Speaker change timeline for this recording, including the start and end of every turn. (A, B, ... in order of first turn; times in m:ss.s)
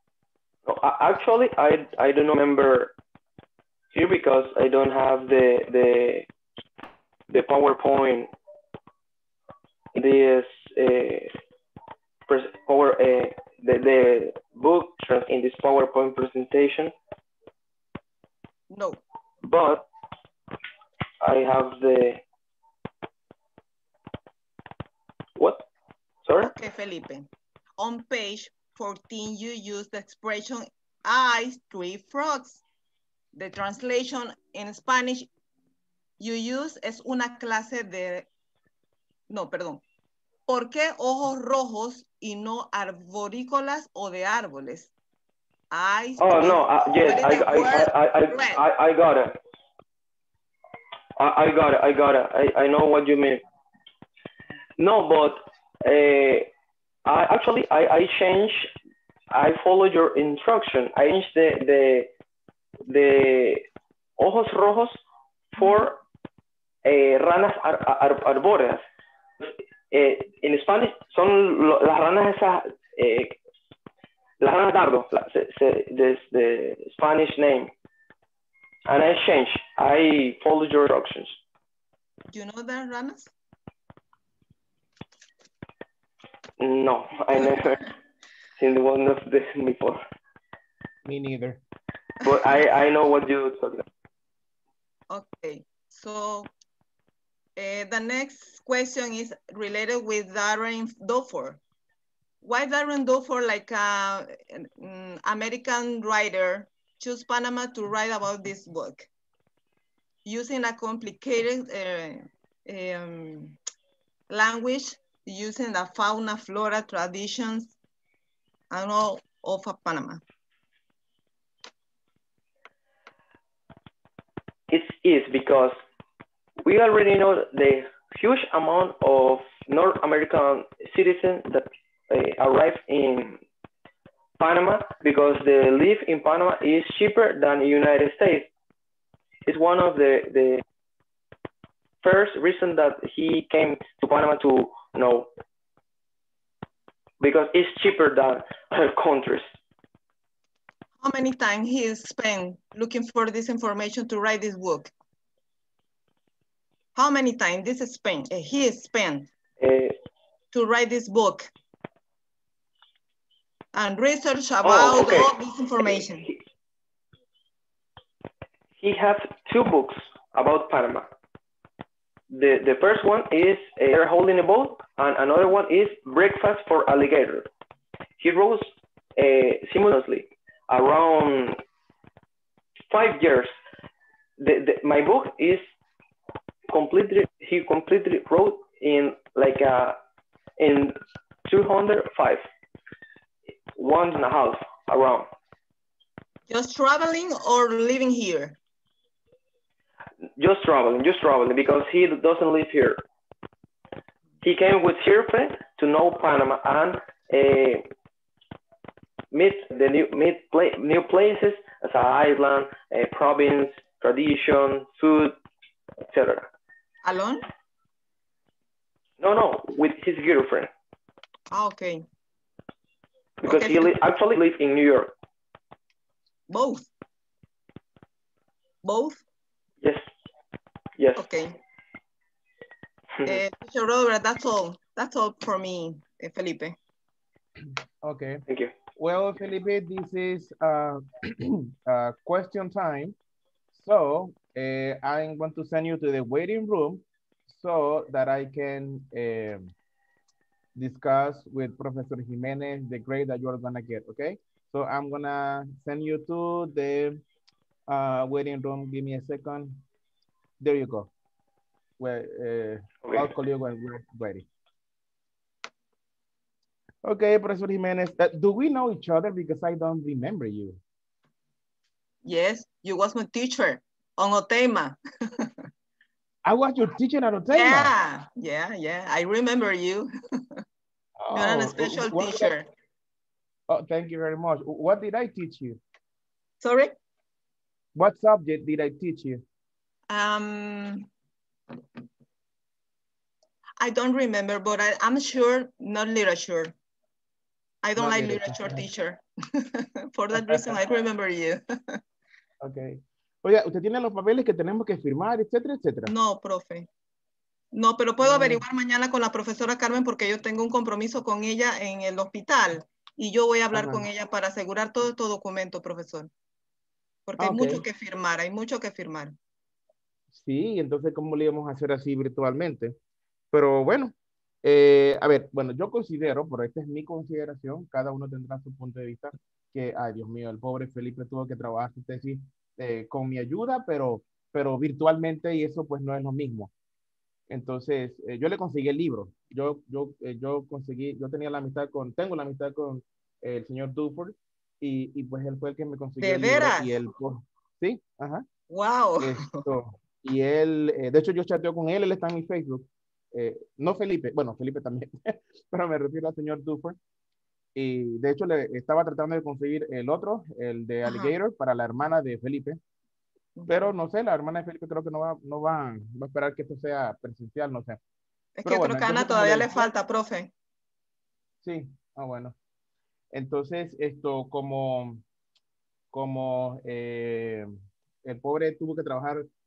0:00.7-0:02.9 A
0:03.9-0:06.3 A
0:07.3-0:08.3 A
0:09.9-0:11.3 A
0:12.3-0:16.9 A
0:18.7-0:19.0 B
0:19.4-0:19.9 A
0:21.2-0:22.2 A
0:25.4-0:25.7 A
0:26.2-0:26.5 A
0:26.4-0:32.6 B
0:33.3-0:35.3 B
0:36.2-0:38.3 B
0:39.3-0:39.8 B
0:40.5-0:44.9 B
0:45.7-0:48.6 B
0:46.2-0:49.4 A
0:51.2-0:53.4 A
0:54.8-0:56.5 A
0:57.1-0:58.7 A
0:59.3-1:02.1 A
1:02.9-1:03.6 A
1:04.2-1:05.0 A
1:05.5-1:06.0 A
1:06.8-1:08.8 A
1:09.4-1:13.4 A
1:14.4-1:17.7 A
1:18.9-1:21.4 A
1:22.3-1:23.3 B
1:26.6-1:27.9 A
1:28.6-1:30.0 A
1:31.0-1:31.6 C
1:32.2-1:33.8 A
1:35.1-1:36.5 B
1:37.6-1:41.6 B
1:42.4-1:49.1 B
1:50.2-1:53.6 B
1:54.3-1:57.7 B
1:58.7-2:00.2 B
2:04.7-2:05.8 A
2:06.6-2:13.4 A
2:14.4-2:18.5 A
2:19.4-2:20.6 A
2:22.0-2:25.3 A
2:27.2-2:29.5 A
2:31.0-2:34.9 B
2:37.0-2:39.3 B
2:39.6-2:40.0 A
2:40.5-2:41.5 B
2:43.7-2:46.3 B
2:44.6-2:46.4 A
2:48.8-2:51.1 A
2:52.3-2:57.5 A
2:58.2-3:01.6 A
3:02.9-3:03.5 A
3:04.4-3:05.6 A
3:06.7-3:10.0 A
3:10.6-3:11.0 A
3:11.4-3:12.4 A
3:13.8-3:15.3 A
3:16.5-3:18.6 B
3:20.4-3:23.0 A
3:24.4-3:27.8 A
3:29.3-3:35.4 A
3:36.1-3:36.5 A
3:37.0-3:37.4 B
3:39.2-3:40.7 A
3:41.5-3:42.1 B
3:43.4-3:45.1 A
3:43.4-3:43.9 B
3:46.5-3:46.9 B
3:48.8-3:49.2 B
3:51.2-3:51.6 B
3:53.2-3:53.4 A
3:53.3-3:56.8 B
3:58.0-3:58.4 C
3:58.5-3:58.7 A
3:59.0-4:03.2 C
4:03.7-4:09.7 C
4:10.8-4:17.2 C
4:17.9-4:19.8 C
4:20.6-4:21.1 C
4:22.0-4:24.5 C
4:27.0-4:30.8 C
4:32.2-4:35.6 B
4:36.4-4:37.9 C
4:37.5-4:40.6 B
4:41.2-4:42.5 C
4:41.4-4:42.7 B
4:43.7-4:45.8 C
4:46.6-4:47.0 B
4:48.0-4:49.4 C
4:50.1-4:51.1 B
4:53.8-4:56.7 B
4:57.8-5:02.0 B
4:58.0-4:58.9 C
5:00.4-5:00.8 C
5:02.6-5:06.1 C
5:06.1-5:06.9 B
5:07.7-5:16.3 B
5:08.2-5:08.6 C
5:13.7-5:14.1 C
5:17.3-5:19.4 B
5:17.4-5:17.8 C
5:20.3-5:23.0 C
5:23.5-5:36.7 C
5:37.5-5:48.4 C
5:46.2-5:46.9 B
5:48.7-5:49.6 B
5:49.2-5:57.0 C
5:57.7-6:02.8 C
6:01.0-6:01.3 B
6:03.6-6:03.9 B
6:03.7-6:08.0 C
6:08.6-6:10.5 B
6:08.6-6:09.9 C
6:11.6-6:12.6 C
6:13.3-6:15.2 C
6:16.1-6:17.7 C
6:18.2-6:19.4 C